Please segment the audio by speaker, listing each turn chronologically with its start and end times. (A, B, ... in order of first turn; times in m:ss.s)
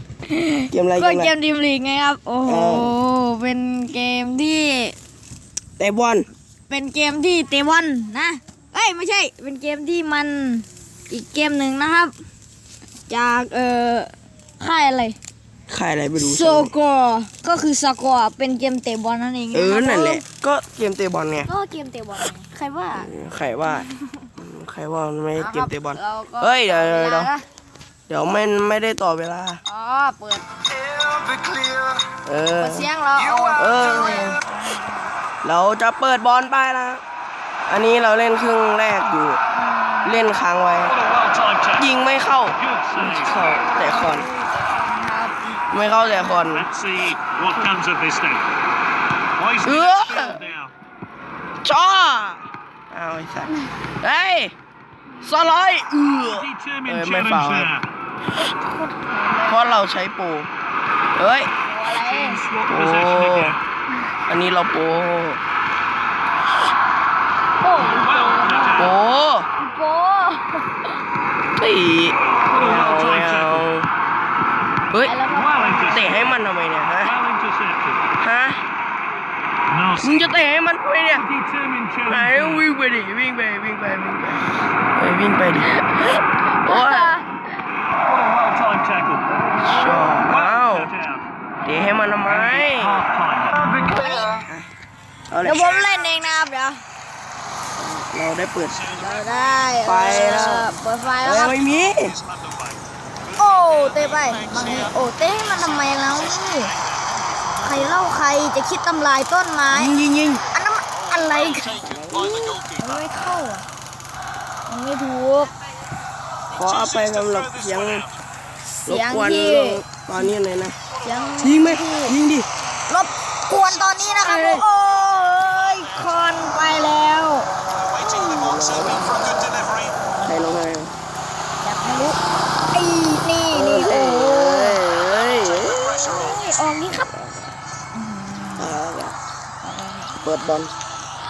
0:00.3-0:05.0 A
0:00.7-0:01.3 B
0:02.5-0:03.0 B
0:05.8-0:06.3 B
0:06.7-0:12.1 A
0:13.1-0:15.2 A
0:15.7-0:16.7 B
0:16.2-0:20.2 A
0:19.5-0:21.5 B
0:21.5-0:23.1 A
0:22.9-0:23.9 B
0:23.7-0:24.3 A
0:24.4-0:27.3 B
0:25.4-0:27.4 A
0:28.1-0:29.6 B
0:29.6-0:30.5 A
0:32.2-0:32.9 B
0:32.6-0:35.1 A
0:33.6-0:34.4 B
0:35.4-0:37.0 B
0:37.7-0:39.4 B
0:39.5-0:40.3 A
0:40.0-0:41.0 B
0:40.9-0:41.9 C
0:41.8-0:44.3 B
0:42.6-0:43.4 C
0:43.3-0:45.6 A
0:45.7-0:46.7 B
0:46.5-0:48.4 C
0:49.4-0:50.7 C
0:49.6-0:50.4 B
0:51.6-0:54.5 B
0:55.2-0:57.7 B
0:56.2-0:57.9 C
0:58.4-0:59.8 A
0:59.5-1:00.5 B
1:01.2-1:01.5 B
1:01.7-1:02.4 A
1:01.8-1:03.6 C
1:02.7-1:03.6 B
1:04.3-1:05.4 B
1:07.6-1:09.0 A
1:07.8-1:08.9 C
1:08.8-1:09.5 B
1:09.6-1:10.9 A
1:11.6-1:13.9 B
1:12.5-1:13.7 C
1:15.0-1:16.4 A
1:15.3-1:16.3 C
1:15.9-1:17.2 B
1:17.0-1:18.0 C
1:18.2-1:18.6 B
1:19.7-1:20.3 C
1:20.0-1:21.3 B
1:21.1-1:22.7 C
1:22.1-1:25.7 B
1:25.8-1:27.3 A
1:26.6-1:27.2 B
1:28.0-1:29.3 C
1:29.4-1:30.1 A
1:29.6-1:30.9 B
1:30.2-1:31.3 C
1:31.6-1:33.1 B
1:32.2-1:33.8 C
1:33.8-1:34.4 A
1:35.3-1:35.7 B
1:35.4-1:36.8 A
1:35.6-1:36.4 C
1:37.8-1:38.9 B
1:38.7-1:39.8 C
1:38.9-1:41.6 A
1:39.8-1:42.2 B
1:41.5-1:42.8 C
1:43.3-1:47.6 C
1:43.4-1:46.7 A
1:47.6-1:50.0 A
1:49.7-1:50.5 B
1:50.5-1:53.7 A
1:50.9-1:53.0 C
1:51.7-1:52.3 B
1:54.7-1:55.5 A
1:56.5-1:58.1 B
1:56.5-1:58.2 C
1:58.9-2:00.2 A
1:58.9-2:00.8 B
2:00.9-2:01.6 C
2:01.0-2:02.2 A
2:01.4-2:02.5 B
2:02.9-2:07.5 A
2:03.8-2:04.1 C
2:04.2-2:04.6 B
2:05.1-2:06.6 C
2:07.7-2:10.0 C
2:08.2-2:09.3 B
2:10.2-2:11.0 B
2:11.6-2:12.2 A
2:12.7-2:14.8 A
2:13.5-2:16.0 B
2:15.1-2:16.5 C
2:16.0-2:18.8 A
2:18.6-2:19.2 B
2:19.6-2:20.2 A
2:20.2-2:20.7 B